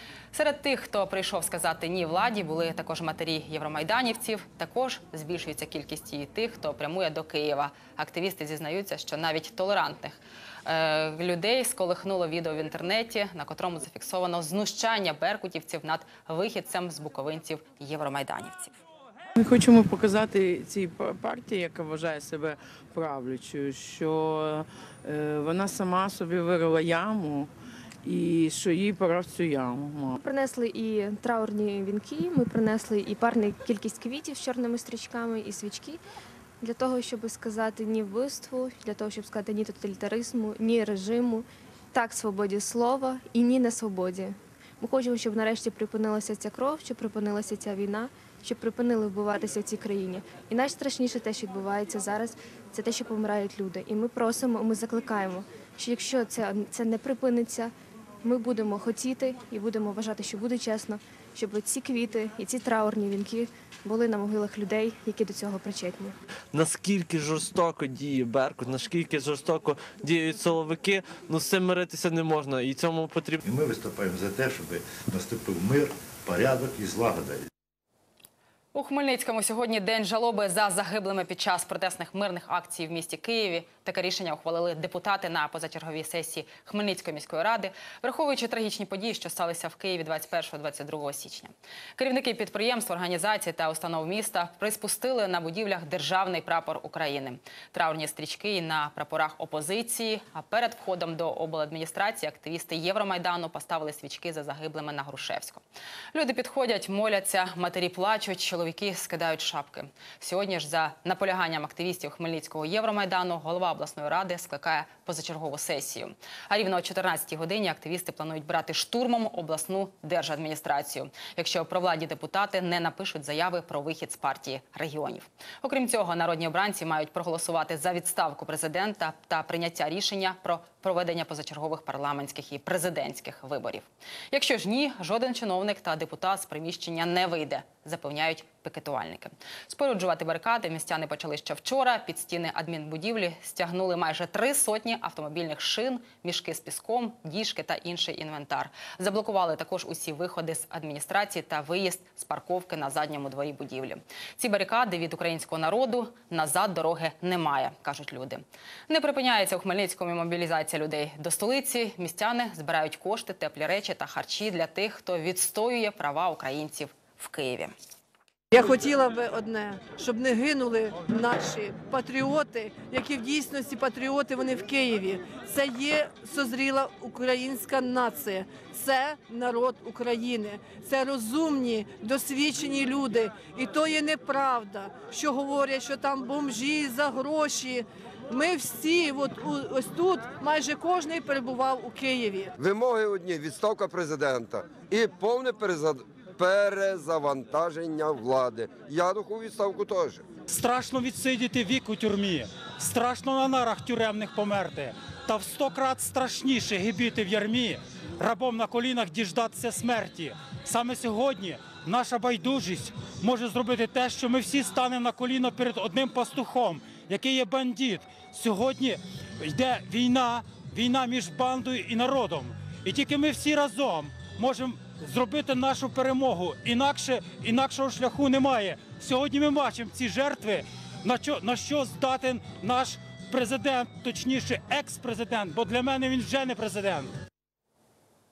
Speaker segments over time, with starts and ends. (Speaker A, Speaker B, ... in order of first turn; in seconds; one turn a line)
Speaker A: 0.3-18.8
Speaker B: 19.4-27.5
Speaker B: 28.0-30.2
Speaker C: 30.2-36.0
Speaker C: 36.6-57.7
Speaker C: 58.2-66.1
Speaker D: 66.5-73.4
Speaker E: 73.4-77.5
Speaker A: 78.7-105.6
Speaker A: 106.1-167.7
Speaker F: 168.5-192.5
Speaker G: 192.6-200.2
Speaker H: 200.5-237.1